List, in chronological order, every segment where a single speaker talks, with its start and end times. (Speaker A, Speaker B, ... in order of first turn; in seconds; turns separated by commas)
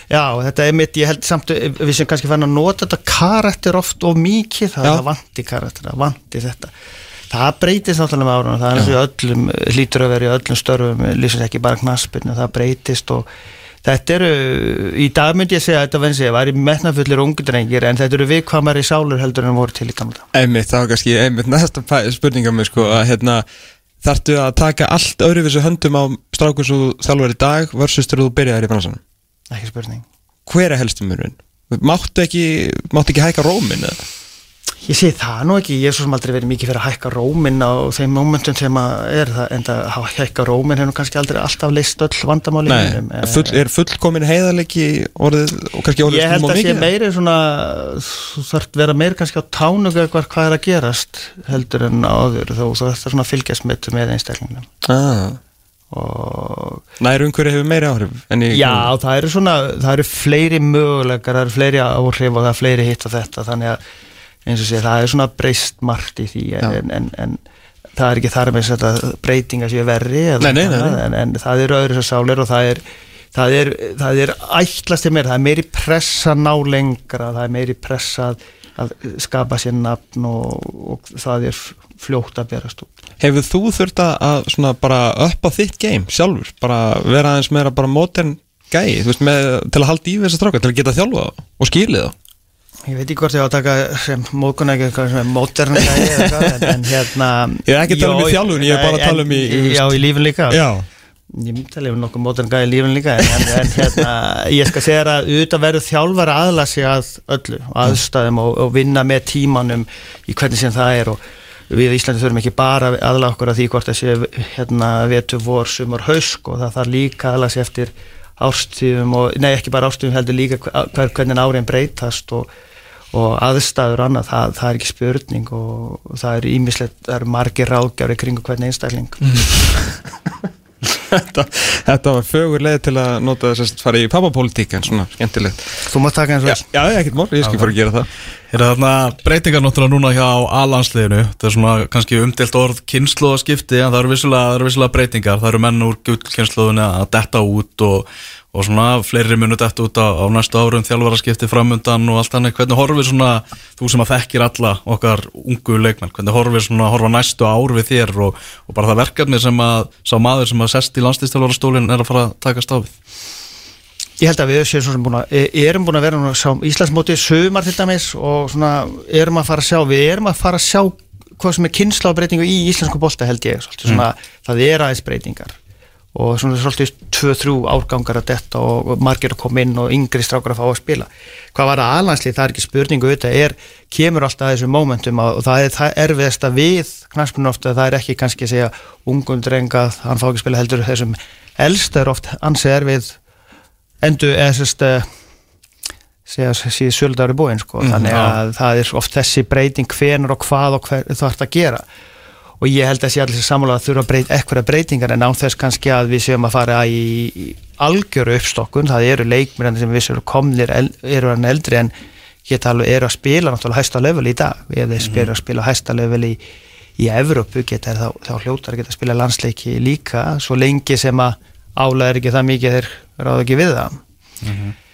Speaker A: 0.1-6.7, Speaker A: 7.3-13.3, Speaker A: 13.8-20.3, Speaker B: 20.3-23.4, Speaker B: 24.0-29.0, Speaker A: 29.5-30.0, Speaker B: 30.4-34.0, Speaker A: 34.8-43.6, Speaker B: 42.6-46.9, Speaker A: 46.0-54.7, Speaker B: 54.8-55.4, Speaker A: 55.9-56.8, Speaker B: 57.0-58.9, Speaker A: 58.5-63.8, Speaker A: 64.5-67.4, Speaker A: 68.0-72.8, Speaker B: 70.4-71.0, Speaker A: 73.3-82.9, Speaker B: 83.2-92.1, Speaker A: 92.8-100.6, Speaker B: 96.0-96.5, Speaker B: 97.6-100.8, Speaker A: 101.3-111.2, Speaker A: 111.7-122.5, Speaker A: 123.1-129.4, Speaker B: 131.1-135.8, Speaker A: 135.8-136.6, Speaker B: 136.4-138.1, Speaker C: 137.4-137.7, Speaker C: 138.5-162.9, Speaker A: 164.2-175.5, Speaker A: 176.1-193.2, Speaker A: 194.0-195.1, Speaker A: 196.2-201.8, Speaker C: 197.8-198.4, Speaker A: 202.6-211.9, Speaker A: 212.4-216.4, Speaker A: 217.0-224.0, Speaker C: 224.4-224.7